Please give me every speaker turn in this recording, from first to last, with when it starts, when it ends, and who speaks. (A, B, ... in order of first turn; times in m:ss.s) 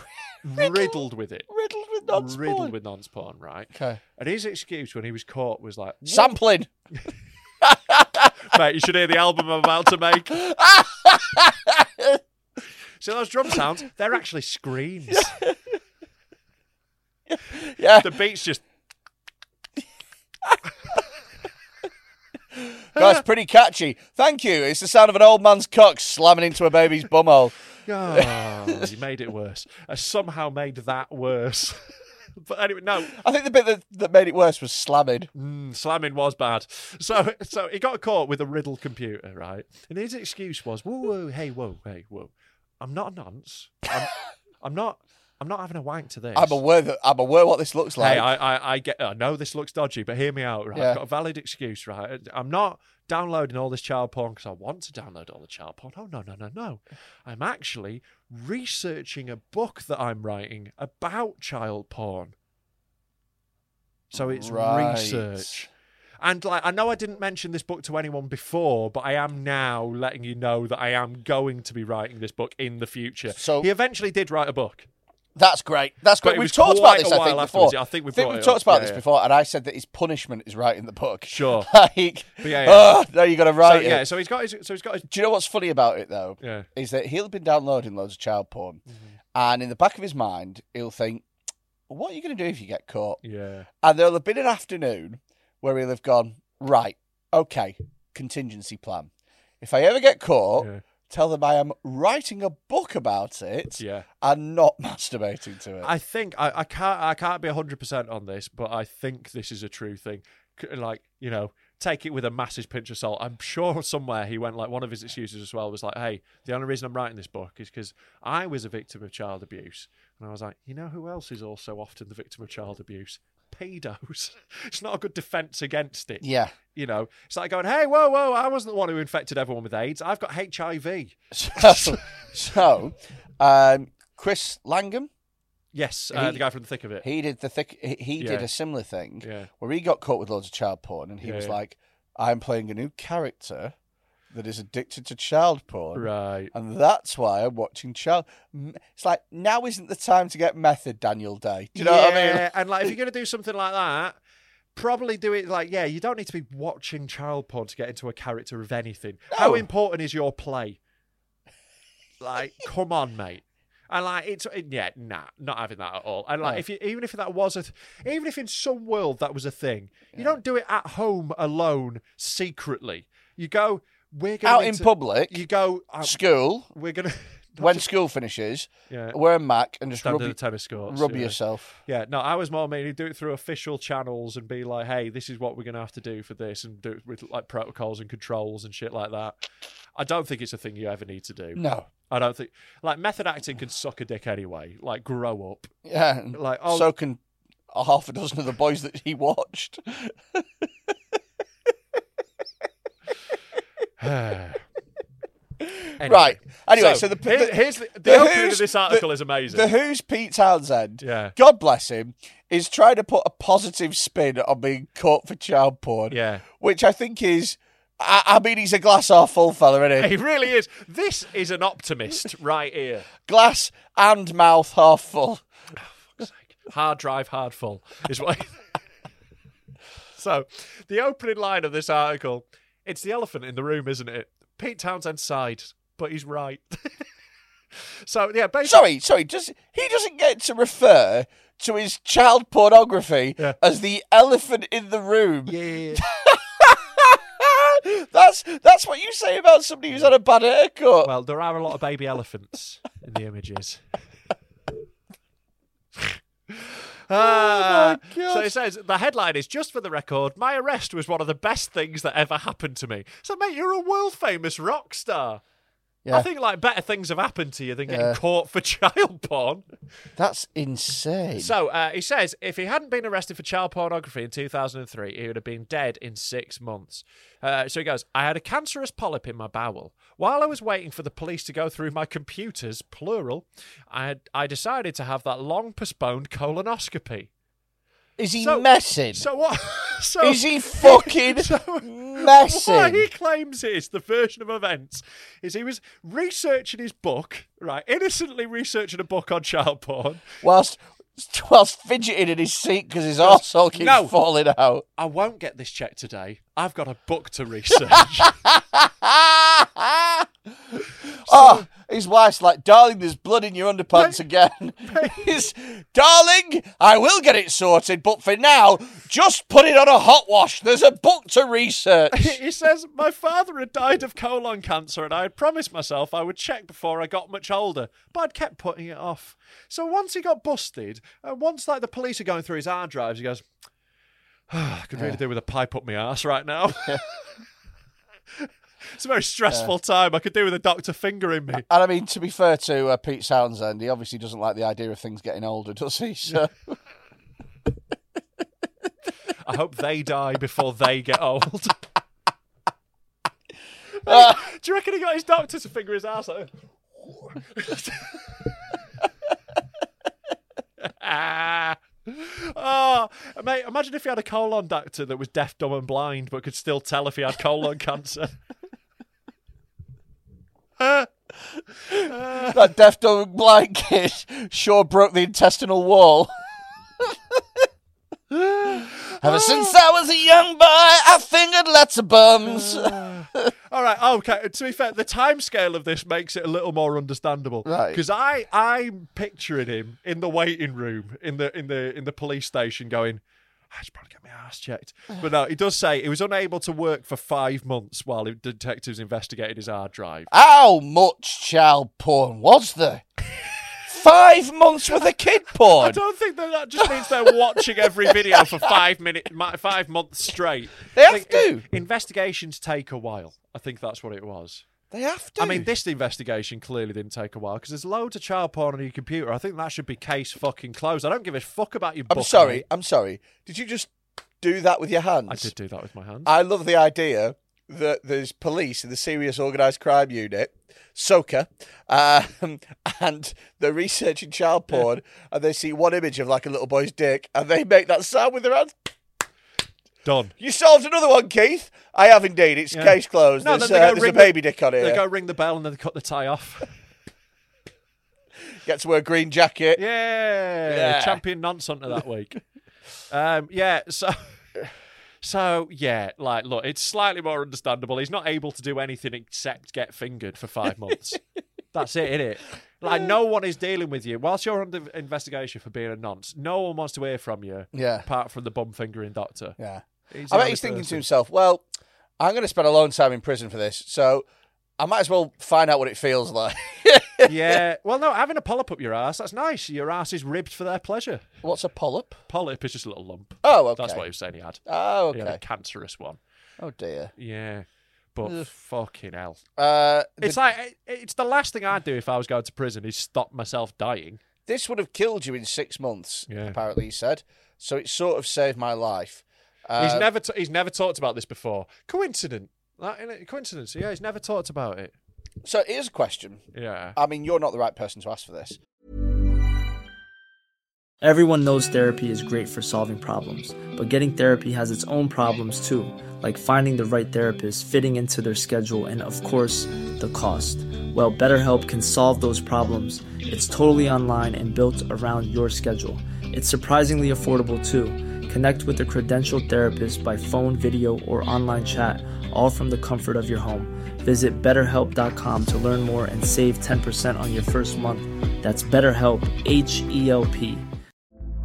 0:00.4-0:01.5 A
0:00.6-0:01.0 B
0:01.5-0:02.8 B
0:02.1-0:06.4 A
0:03.7-0:04.0 B
0:06.0-0:06.7 B
0:07.6-0:08.3 B
0:08.5-0:10.4 A
0:10.3-0:12.2 B
0:13.0-0:15.4 A
0:15.1-0:15.6 B
0:17.3-0:18.2 B
0:18.0-0:18.6 A
0:22.6-0:27.6 B
0:27.9-0:33.2 A
0:28.1-0:28.9 B
0:33.0-0:35.3 B
0:35.4-0:46.6 A
0:46.4-0:48.3 B
0:48.0-1:02.3 A
0:50.7-0:51.0 B
1:04.1-1:05.7 A
1:04.1-1:05.7 B
1:06.2-1:14.9 A
1:13.3-1:13.7 B
1:15.4-1:24.0 B
1:16.2-1:19.0 A
1:21.3-1:21.7 A
1:22.4-1:23.0 A
1:23.6-1:25.1 A
1:25.1-1:28.8 B
1:26.4-1:26.7 A
1:29.3-1:31.2 B
1:31.9-1:33.2 B
1:33.2-1:33.7 A
1:33.8-1:39.1 B
1:39.6-1:45.9 B
1:43.8-1:44.1 A
1:45.8-2:12.0 A
2:06.2-2:06.6 B
2:11.3-2:15.1 B
2:15.7-2:17.0 A
2:16.1-2:16.4 B
2:17.0-2:23.7 B
2:18.2-2:18.5 A
2:19.2-2:19.5 A
2:21.2-2:21.6 A
2:24.3-2:32.4 B
2:26.0-2:26.5 A
2:31.8-2:34.2 A
2:34.8-2:40.8 A
2:39.3-2:39.7 B
2:42.2-2:56.2 A
2:54.4-2:55.4 B
2:56.0-2:56.7 B
2:56.7-2:57.9 A
2:57.6-3:01.8 B
2:58.9-2:59.2 A
3:00.0-3:09.4 A
3:10.0-3:15.7 A
3:11.6-3:11.9 B
3:15.8-3:17.2 B
3:16.3-3:16.9 A
3:17.7-3:20.7 B
3:24.0-3:24.6 A
3:25.6-3:40.1 B
3:26.0-3:29.7 A
3:31.0-3:31.3 A
3:36.1-3:36.5 A
3:40.0-3:43.1 A
3:43.2-3:45.4 B
3:46.2-3:48.5 A
3:50.2-3:57.0 A
3:57.8-3:58.8 A
3:58.6-4:11.1 B
4:05.5-4:06.0 A
4:11.0-4:13.8 A
4:16.0-4:25.4 A
4:17.1-4:18.5 B
4:26.1-4:29.6 A
4:27.9-4:28.2 B
4:30.2-4:31.5 B
4:31.4-4:47.3 A
4:48.2-4:49.3 B
4:48.4-5:00.3 A
4:50.2-4:53.1 B
5:00.4-5:04.8 B
5:03.2-5:04.1 A
5:05.0-5:08.4 A
5:07.9-5:22.4 B
5:11.2-5:11.6 A
5:13.9-5:14.2 A
5:14.9-5:15.3 A
5:22.1-5:33.4 A
5:34.5-5:37.2 A
5:38.4-5:41.6 A
5:41.5-5:46.8 B
5:49.4-5:51.8 A
5:54.0-5:56.5 A
5:54.1-5:54.4 B
5:57.1-5:58.4 A
6:00.8-6:08.4 A
6:10.8-6:11.1 A
6:11.9-6:12.6 A
6:11.9-6:16.3 B
6:17.0-6:17.4 B
6:18.3-6:19.8 A
6:19.2-6:23.5 B
6:22.4-6:40.3 A
6:27.6-6:28.0 B
6:40.3-6:43.1 B
6:43.9-6:46.0 B
6:45.7-6:54.6 A
6:46.8-6:47.3 B
6:47.8-6:48.6 B
6:50.9-6:51.6 B
6:54.9-6:55.7 B
6:55.4-7:02.6 A
7:02.1-7:05.5 B
7:05.3-7:06.3 A
7:06.3-7:18.9 B
7:20.0-7:20.3 A
7:20.4-7:25.0 B
7:22.7-7:26.7 A
7:28.6-7:29.8 B
7:29.8-7:32.4 A
7:30.6-7:31.2 B
7:33.1-7:34.4 A
7:35.2-7:41.2 A
7:41.7-7:49.6 A
7:47.7-7:48.1 B
7:49.6-7:51.7 B
7:50.1-7:51.0 A
7:52.2-7:54.3 B
7:54.8-7:57.6 B
7:57.2-8:01.3 A
8:01.4-8:02.2 B
8:02.3-8:06.2 A
8:03.4-8:04.0 B
8:04.7-8:05.4 B
8:06.6-8:07.1 B
8:07.2-8:09.4 A
8:09.6-8:10.4 B
8:10.2-8:14.2 A
8:14.5-8:20.1 B
8:16.3-8:16.6 A
8:19.8-8:25.0 A
8:25.4-8:26.4 B
8:26.5-8:27.0 A
8:27.0-8:28.6 B
8:31.0-9:00.7 C